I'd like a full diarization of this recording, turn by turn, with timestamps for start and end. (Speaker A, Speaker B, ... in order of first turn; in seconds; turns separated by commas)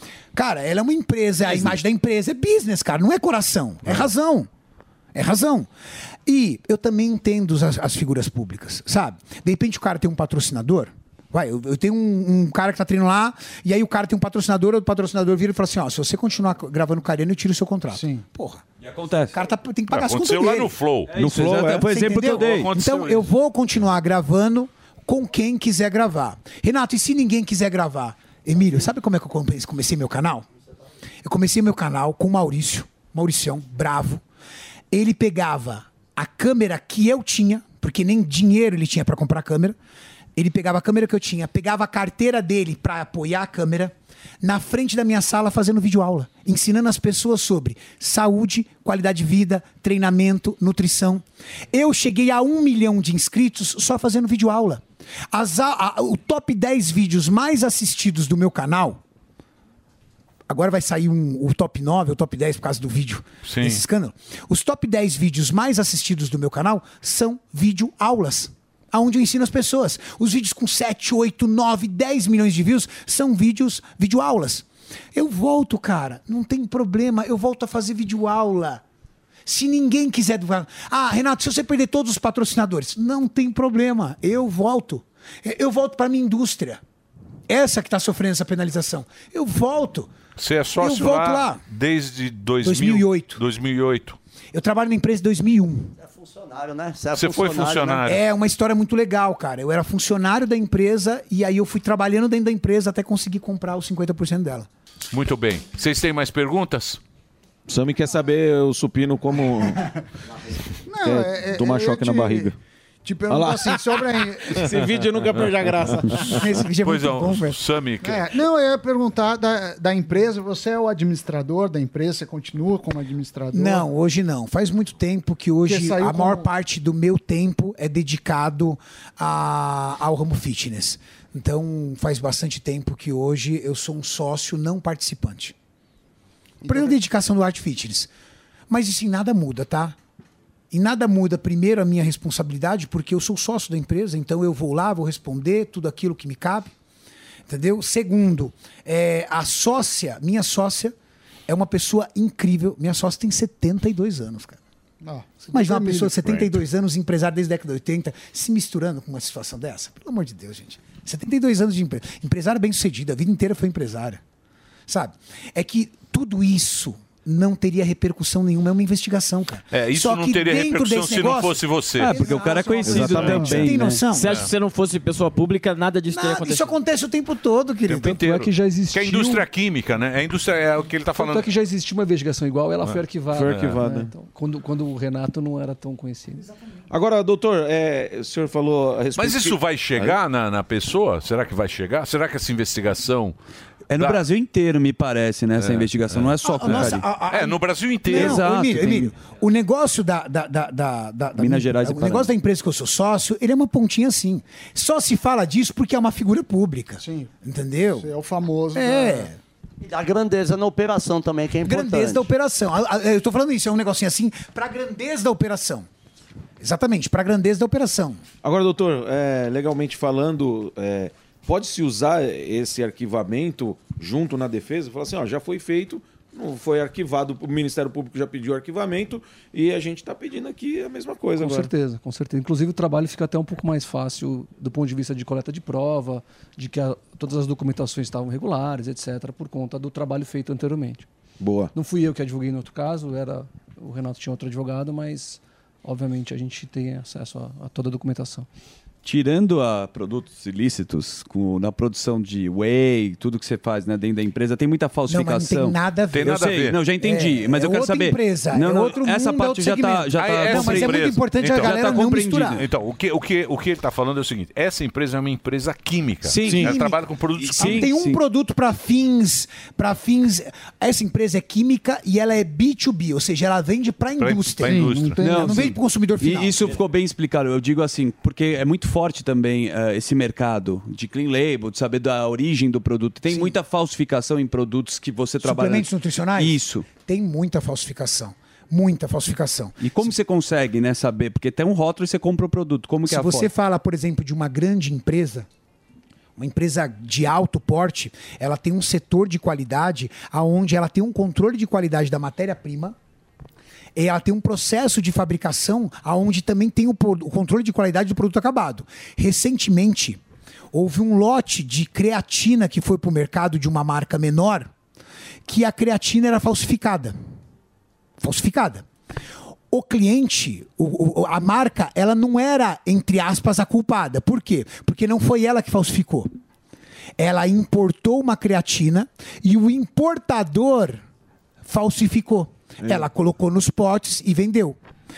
Speaker A: 0.3-4.5, Speaker A: 5.2-5.7, Speaker A: 6.3-18.6, Speaker B: 17.9-18.2, Speaker C: 18.8-19.4, Speaker A: 19.3-20.8, Speaker D: 19.9-21.1, Speaker C: 21.1-23.0, Speaker E: 21.1-21.9, Speaker A: 21.8-30.5, Speaker D: 22.2-23.3, Speaker A: 31.2-34.2, Speaker A: 34.9-39.8, Speaker A: 40.4-59.0, Speaker A: 60.5-78.8, Speaker D: 63.4-63.8, Speaker A: 79.5-86.8, Speaker A: 87.5-90.1, Speaker D: 90.4-94.2, Speaker A: 90.8-91.6, Speaker A: 92.6-93.4, Speaker A: 94.5-95.9, Speaker F: 96.0-98.0, Speaker D: 97.2-98.2, Speaker A: 98.1-104.7, Speaker D: 105.1-107.0, Speaker E: 107.7-109.8, Speaker B: 110.9-112.5, Speaker E: 111.0-112.5, Speaker B: 113.0-114.7, Speaker E: 113.3-114.0, Speaker E: 114.5-116.4, Speaker A: 116.3-117.6, Speaker D: 116.8-118.3, Speaker B: 118.0-123.9, Speaker A: 123.5-135.6, Speaker B: 125.7-126.5, Speaker B: 136.6-137.0, Speaker A: 136.6-138.1, Speaker A: 138.7-140.0, Speaker A: 140.7-146.7, Speaker A: 147.5-150.9, Speaker A: 151.5-154.6, Speaker B: 155.0-156.5, Speaker A: 155.5-164.2, Speaker A: 164.9-174.4, Speaker D: 169.7-172.3, Speaker C: 172.0-174.1, Speaker B: 173.2-173.7, Speaker G: 174.1-176.8, Speaker D: 174.2-174.5, Speaker A: 176.1-178.2, Speaker D: 177.9-181.5, Speaker H: 178.0-179.5, Speaker H: 181.1-186.5, Speaker D: 182.8-183.9, Speaker E: 183.3-184.1, Speaker E: 186.9-190.2, Speaker D: 189.2-193.3, Speaker C: 193.9-197.1, Speaker D: 194.0-194.2, Speaker D: 195.6-198.4, Speaker A: 196.4-208.1, Speaker C: 198.1-199.1, Speaker C: 201.4-202.3, Speaker B: 207.0-207.3, Speaker B: 207.9-209.3, Speaker A: 208.8-209.4, Speaker F: 209.8-212.3, Speaker A: 211.7-215.9, Speaker A: 216.6-218.2, Speaker E: 218.4-231.7, Speaker H: 231.4-241.1, Speaker E: 241.4-241.7, Speaker H: 241.8-248.5, Speaker C: 249.0-262.6, Speaker A: 255.1-262.6, Speaker D: 256.1-256.8, Speaker D: 260.1-267.9, Speaker C: 266.3-266.8, Speaker A: 266.4-276.8, Speaker C: 267.4-268.2, Speaker D: 274.2-275.2, Speaker B: 274.6-275.8, Speaker C: 275.2-286.9, Speaker A: 283.3-283.6, Speaker A: 285.4-290.1, Speaker C: 289.8-293.5, Speaker A: 293.1-295.5, Speaker A: 296.4-302.9, Speaker A: 304.0-310.2, Speaker A: 310.7-314.7, Speaker A: 315.5-317.1, Speaker A: 318.2-318.9, Speaker A: 319.7-326.3, Speaker A: 327.2-331.0, Speaker A: 331.7-334.8